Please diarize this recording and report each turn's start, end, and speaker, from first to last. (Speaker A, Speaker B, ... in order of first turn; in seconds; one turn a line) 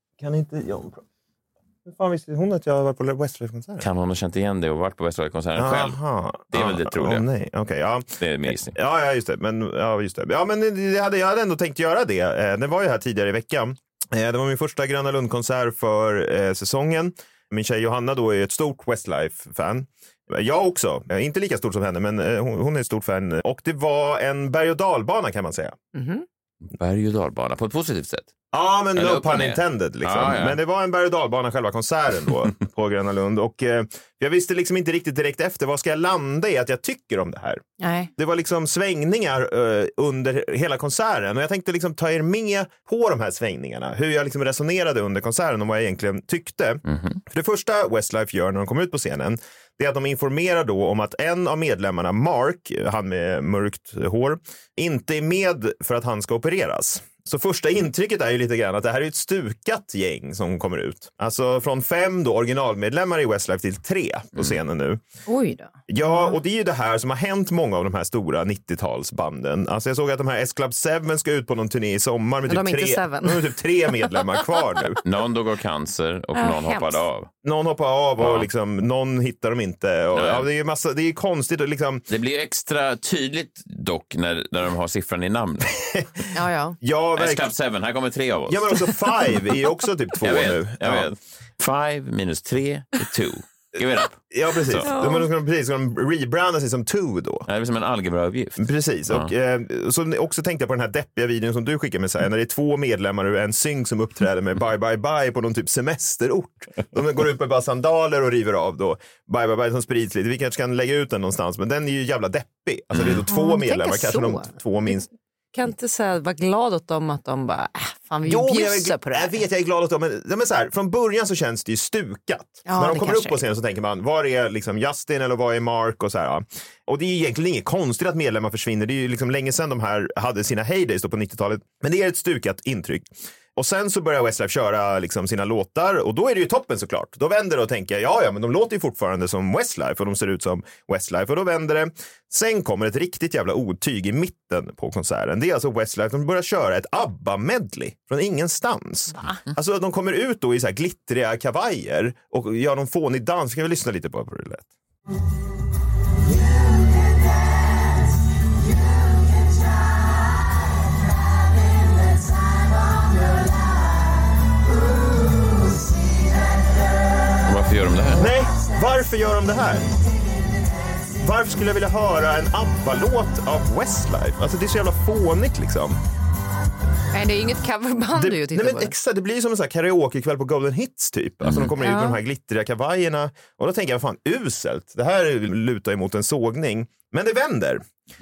Speaker A: 0.2-1.0
Speaker A: 1.8-3.9
Speaker B: 3.8-6.0
Speaker A: 5.5-25.8
Speaker B: 6.5-7.2
Speaker B: 8.2-8.8
Speaker C: 25.9-26.2
Speaker B: 26.7-28.3
Speaker A: 28.5-37.6
Speaker B: 28.9-30.6
Speaker C: 37.8-38.1
Speaker A: 38.2-65.0
Speaker B: 46.9-47.2
Speaker C: 65.2-66.4
Speaker A: 65.9-75.0
Speaker C: 72.5-73.5
Speaker B: 75.0-77.3
Speaker C: 76.3-77.0
Speaker A: 77.4-82.0
Speaker B: 78.2-78.5
Speaker B: 80.1-80.5
Speaker B: 82.1-85.9
Speaker C: 86.3-86.8
Speaker A: 86.8-87.5
Speaker B: 87.2-88.8
Speaker A: 88.5-91.1
Speaker B: 90.2-94.8
Speaker A: 94.3-97.5
Speaker C: 94.8-95.3
Speaker B: 97.5-99.3
Speaker A: 98.6-115.1
Speaker B: 112.9-113.2
Speaker C: 113.3-114.5
Speaker C: 115.5-119.4
Speaker A: 118.2-154.7
Speaker C: 122.7-123.4
Speaker B: 167.4-168.3
Speaker A: 168.2-169.9
Speaker A: 171.2-176.0
Speaker C: 177.1-178.9
Speaker A: 178.1-187.8
Speaker B: 181.4-181.7
Speaker C: 181.8-182.2